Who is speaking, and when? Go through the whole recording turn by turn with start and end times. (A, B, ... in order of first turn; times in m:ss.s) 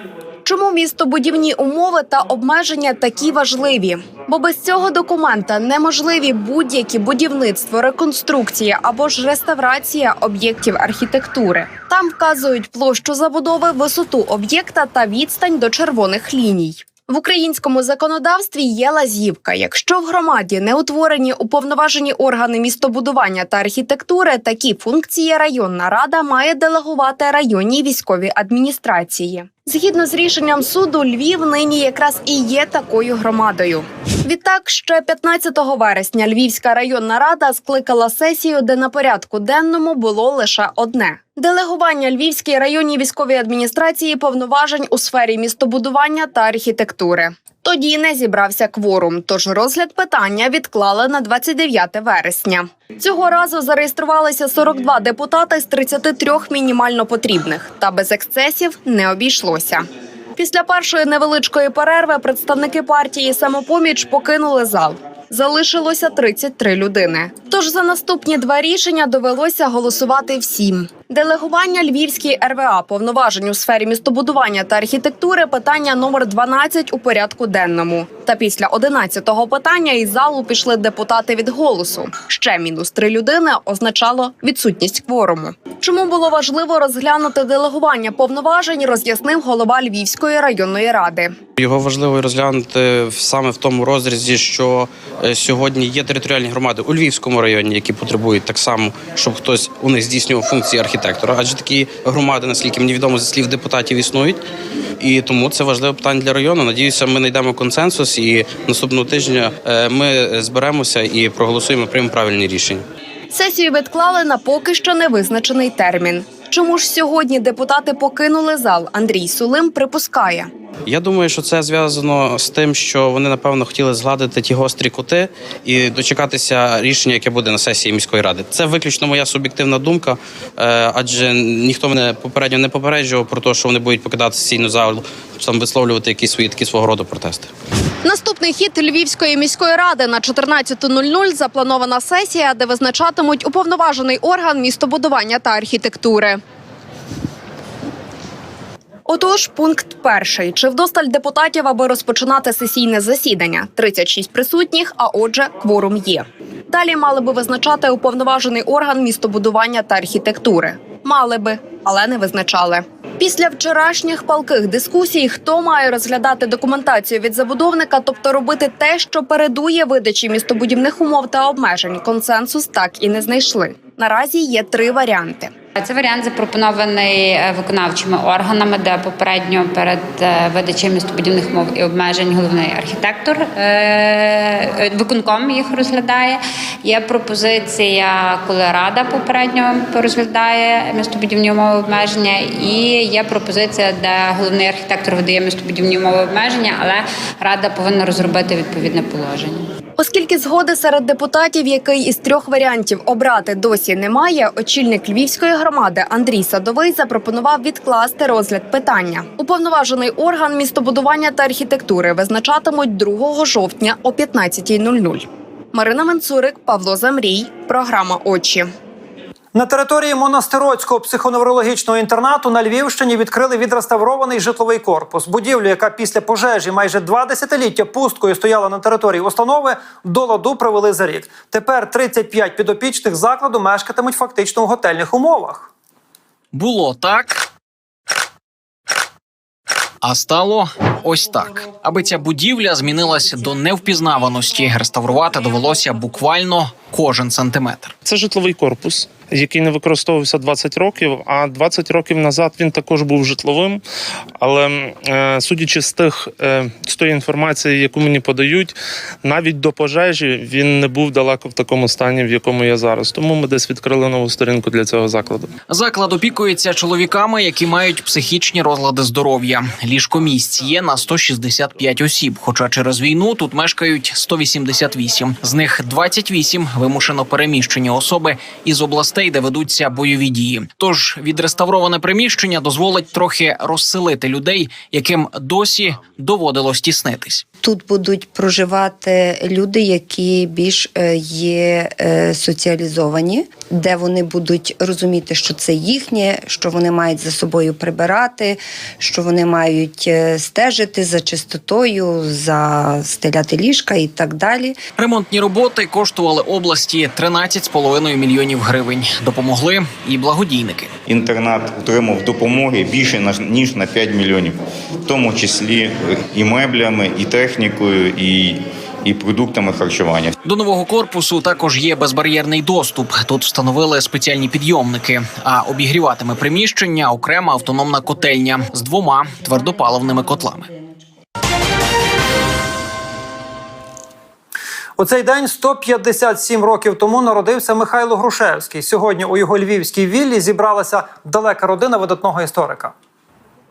0:00.4-0:59.8 A
1:00.4-1:31.4 A
1:31.6-1:44.4 B
1:45.0-1:52.8 B
1:53.3-2:00.5 A
2:00.9-2:17.5 B
2:18.0-2:26.4 A
2:29.1-2:55.5 A
2:55.8-3:19.7 C
3:20.0-3:38.7 A
3:39.5-3:55.7 D
3:56.5-3:57.4 E
4:00.0-4:08.0 E
4:08.1-4:13.7 F
4:15.2-4:18.7 F
4:19.3-4:25.5 F
4:25.7-4:47.4 E
4:47.6-5:04.7 G
5:05.0-5:10.9 E
5:11.1-5:20.3 H
5:20.4-5:30.7 E
5:35.0-5:42.9 D